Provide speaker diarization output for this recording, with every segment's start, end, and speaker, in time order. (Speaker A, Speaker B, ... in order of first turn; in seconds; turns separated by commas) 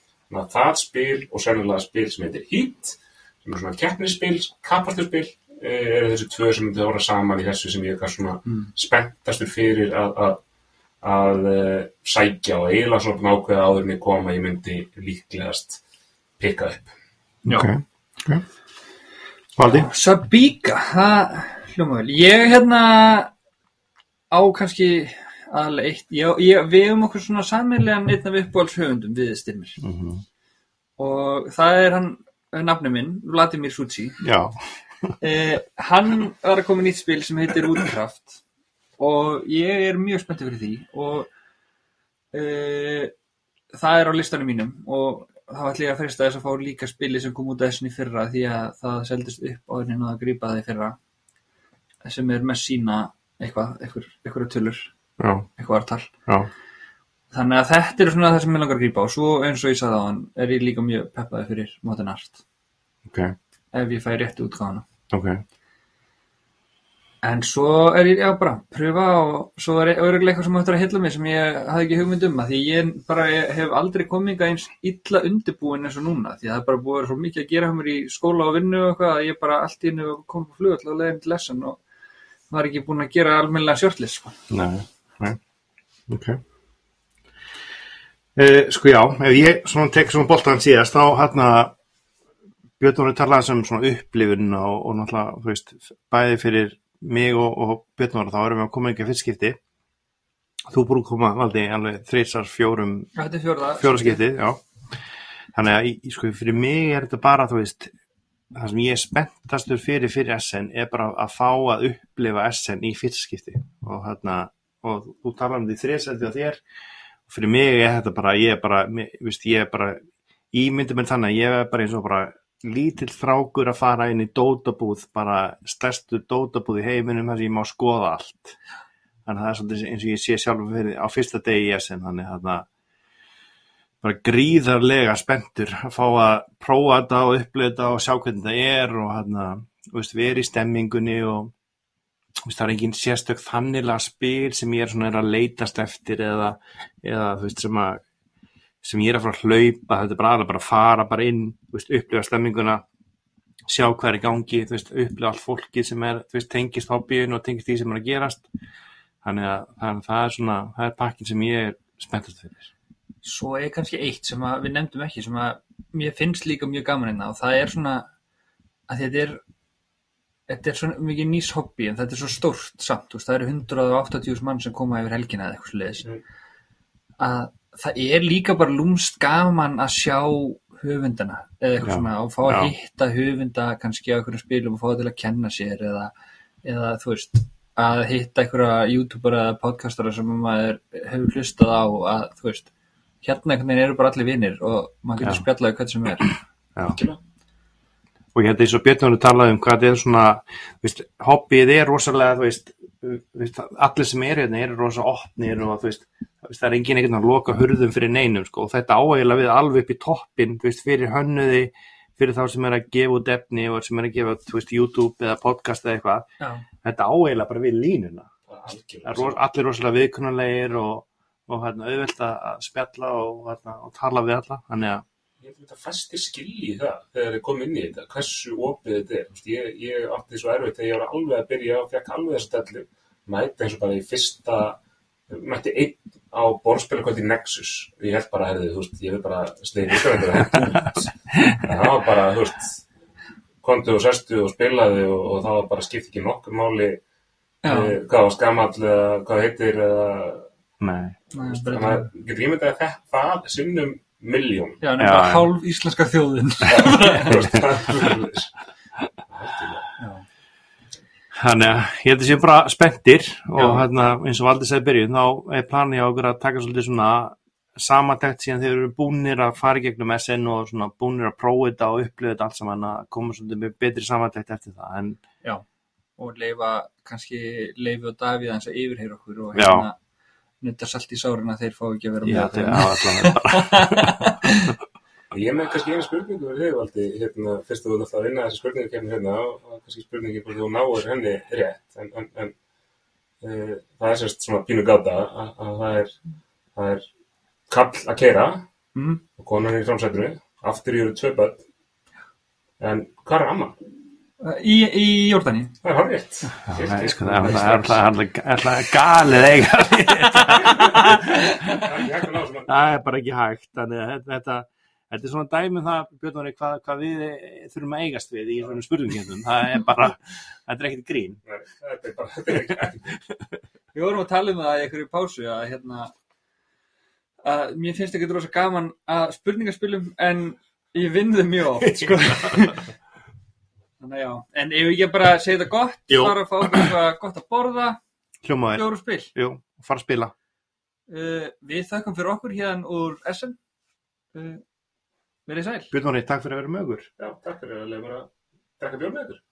Speaker A: 0.3-10.4, Speaker A: 11.0-15.8, Speaker A: 16.4-16.9, Speaker B: 17.5-18.4, Speaker B: 19.6-19.9, Speaker C: 19.6-23.3, Speaker C: 24.3-29.8, Speaker B: 29.8-30.2, Speaker C: 31.0-34.2, Speaker B: 34.2-34.5, Speaker C: 35.2-38.4, Speaker C: 39.0-41.3, Speaker C: 42.3-43.1, Speaker C: 43.7-51.0, Speaker C: 52.0-54.9, Speaker B: 55.2-55.5, Speaker C: 55.6-56.1, Speaker C: 57.3-62.4, Speaker B: 63.1-63.3, Speaker C: 63.7-64.8, Speaker B: 65.1-65.4, Speaker C: 67.2-81.8, Speaker C: 82.5-84.3, Speaker B: 84.5-85.4, Speaker B: 86.1-86.4, Speaker B: 88.3-91.7, Speaker B: 92.8-99.6, Speaker B: 100.7-103.1, Speaker C: 103.2-104.2, Speaker B: 103.8-104.6, Speaker B: 105.5-107.9, Speaker B: 108.5-116.6, Speaker B: 117.3-120.0, Speaker B: 120.5-128.6, Speaker B: 129.2-132.7, Speaker B: 134.0-141.5, Speaker B: 142.4-148.0, Speaker B: 148.8-152.8, Speaker B: 153.7-158.5, Speaker B: 159.2-162.7, Speaker C: 163.2-168.1, Speaker C: 168.9-169.4, Speaker C: 170.5-176.1, Speaker C: 177.2-186.1, Speaker B: 181.8-182.7, Speaker C: 186.6-192.7, Speaker C: 193.2-196.3, Speaker A: 196.9-197.2, Speaker B: 198.3-216.3, Speaker C: 216.4-216.6, Speaker B: 216.8-218.3, Speaker A: 218.5-219.4, Speaker B: 219.0-225.0, Speaker A: 225.4-234.8, Speaker A: 235.3-242.8, Speaker B: 241.3-241.6, Speaker A: 243.6-247.0, Speaker C: 247.6-248.0, Speaker A: 247.7-250.5, Speaker B: 250.8-251.2, Speaker C: 251.3-252.1, Speaker A: 251.4-254.8, Speaker C: 254.8-257.4, Speaker B: 255.0-255.5, Speaker A: 256.7-258.5, Speaker A: 259.3-259.9, Speaker C: 260.0-260.2, Speaker B: 261.4-275.2, Speaker C: 263.6-263.9, Speaker C: 276.2-280.0, Speaker B: 279.5-279.9, Speaker C: 280.6-284.7, Speaker B: 282.2-284.1, Speaker A: 285.3-292.5, Speaker A: 293.4-296.1, Speaker A: 296.7-297.0, Speaker A: 297.7-298.6, Speaker C: 298.9-299.2, Speaker A: 299.4-301.6, Speaker A: 302.8-303.8, Speaker C: 304.4-305.7, Speaker A: 305.8-308.0, Speaker B: 306.7-311.9, Speaker A: 310.6-310.9, Speaker A: 311.7-312.7, Speaker B: 312.7-321.4, Speaker A: 321.4-323.1, Speaker C: 323.9-326.1, Speaker C: 327.4-332.8, Speaker B: 332.0-332.7, Speaker C: 334.0-338.0, Speaker B: 336.1-336.9, Speaker B: 338.4-340.3, Speaker C: 338.7-339.3, Speaker C: 341.1-343.6, Speaker C: 344.3-344.6, Speaker C: 345.5-345.9, Speaker B: 345.9-347.1, Speaker A: 347.2-349.4